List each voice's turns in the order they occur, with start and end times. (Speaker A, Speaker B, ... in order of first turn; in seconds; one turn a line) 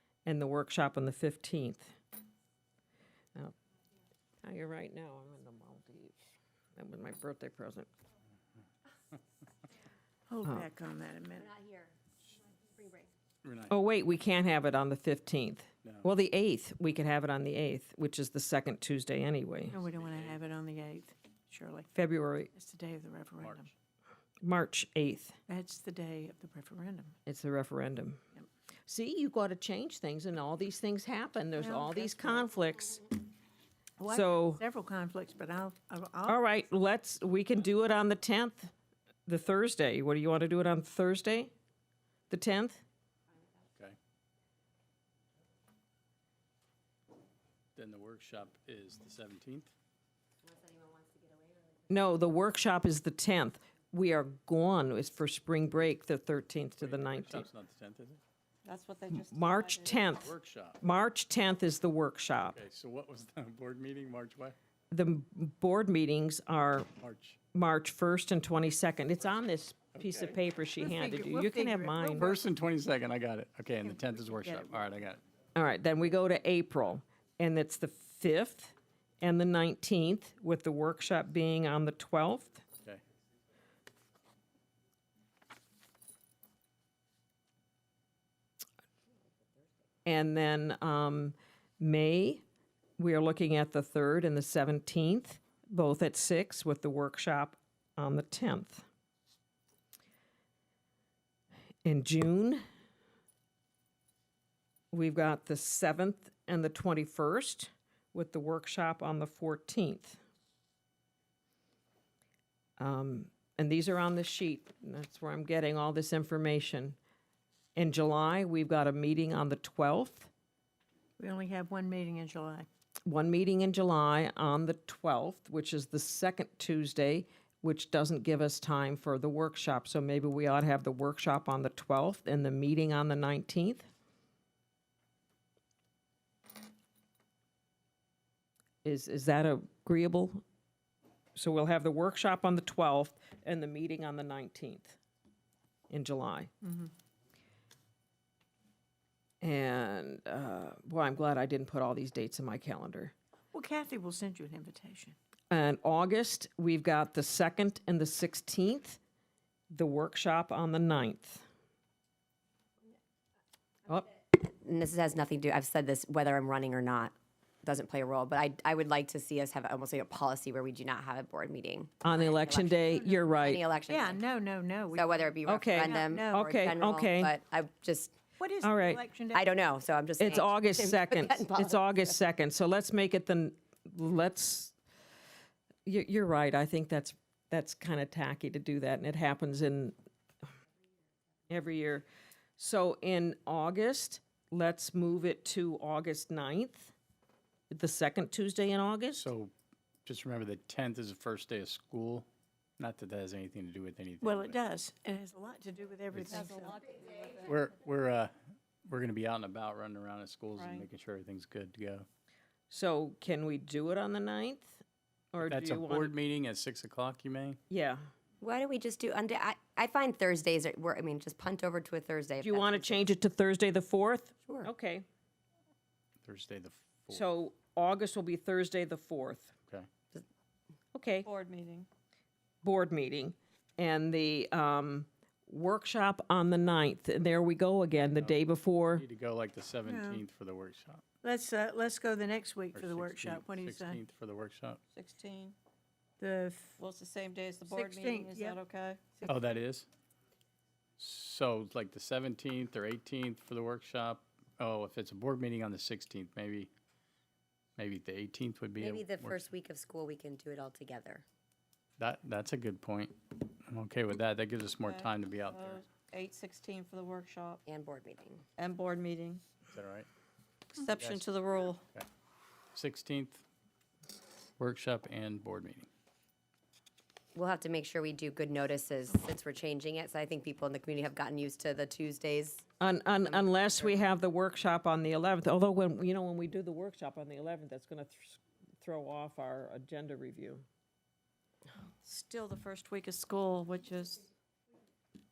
Speaker A: 0.2-1.9
Speaker A: 4.4-6.2
Speaker A: 6.8-7.9
Speaker B: 10.3-11.5
Speaker C: 11.4-11.9
Speaker C: 12.8-13.0
Speaker D: 13.4-13.7
Speaker A: 13.7-19.8
Speaker D: 15.8-16.1
Speaker B: 19.7-21.9
Speaker D: 20.0-20.3
Speaker A: 21.9-22.5
Speaker B: 22.5-23.7
Speaker D: 23.4-23.7
Speaker A: 24.4-25.4
Speaker B: 25.5-27.1
Speaker A: 27.2-28.2
Speaker A: 28.9-33.1
Speaker B: 31.6-32.5
Speaker B: 34.0-36.4
Speaker A: 34.1-34.6
Speaker A: 36.2-38.7
Speaker A: 39.2-41.5
Speaker A: 42.3-42.8
Speaker D: 47.8-49.7
Speaker C: 50.4-51.9
Speaker A: 51.9-57.5
Speaker D: 56.8-58.2
Speaker E: 58.6-60.0
Speaker A: 59.1-62.6
Speaker D: 60.1-60.8
Speaker D: 62.5-64.5
Speaker A: 64.9-66.9
Speaker D: 67.0-67.4
Speaker A: 67.5-72.3
Speaker D: 70.0-70.4
Speaker B: 70.8-72.3
Speaker D: 72.2-75.2
Speaker B: 73.9-74.8
Speaker A: 75.5-82.6
Speaker A: 90.0-92.4
Speaker A: 93.0-98.8
Speaker A: 101.8-102.6
Speaker A: 104.9-110.2
Speaker A: 112.8-117.0
Speaker A: 117.7-120.3
Speaker B: 121.2-122.7
Speaker A: 123.0-133.8
Speaker A: 138.8-140.4
Speaker A: 141.3-145.0
Speaker A: 145.9-146.5
Speaker B: 146.6-146.9
Speaker A: 149.4-153.1
Speaker B: 153.5-155.2
Speaker A: 155.5-159.0
Speaker A: 159.7-161.4
Speaker C: 164.2-174.2
Speaker A: 172.0-173.6
Speaker B: 173.9-176.5
Speaker C: 174.9-178.1
Speaker A: 175.4-177.3
Speaker B: 178.4-179.4
Speaker A: 178.6-179.0
Speaker C: 179.3-182.0
Speaker A: 180.2-184.7
Speaker A: 185.8-189.9
Speaker A: 191.5-192.1
Speaker A: 192.6-196.9
Speaker A: 197.7-199.3
Speaker D: 199.2-199.5
Speaker D: 200.0-202.3
Speaker D: 202.8-204.6
Speaker B: 204.2-206.8
Speaker D: 206.1-206.5
Speaker E: 206.2-207.5
Speaker D: 207.4-212.1
Speaker E: 210.6-210.9
Speaker A: 212.7-214.8
Speaker A: 215.3-216.1
Speaker D: 215.4-217.6
Speaker A: 217.7-218.0
Speaker C: 218.4-223.1
Speaker A: 222.4-225.1
Speaker D: 226.2-227.2
Speaker A: 227.1-229.5
Speaker A: 230.9-231.3
Speaker E: 231.2-231.9
Speaker A: 232.6-239.0
Speaker D: 238.9-241.0
Speaker B: 239.8-240.2
Speaker B: 241.2-244.0
Speaker D: 242.8-244.8
Speaker E: 244.9-245.6
Speaker B: 246.2-246.8
Speaker E: 246.8-249.2
Speaker B: 247.7-248.6
Speaker D: 249.2-249.9
Speaker D: 251.0-256.7
Speaker D: 257.8-259.5
Speaker C: 258.8-261.2
Speaker D: 262.0-265.8
Speaker E: 264.8-267.6
Speaker C: 267.6-268.4
Speaker E: 268.6-269.4
Speaker D: 269.7-270.1
Speaker E: 270.7-271.8
Speaker D: 270.7-271.3
Speaker D: 272.7-273.4
Speaker D: 274.6-275.9
Speaker C: 277.3-282.7
Speaker A: 282.8-290.6
Speaker E: 292.0-294.2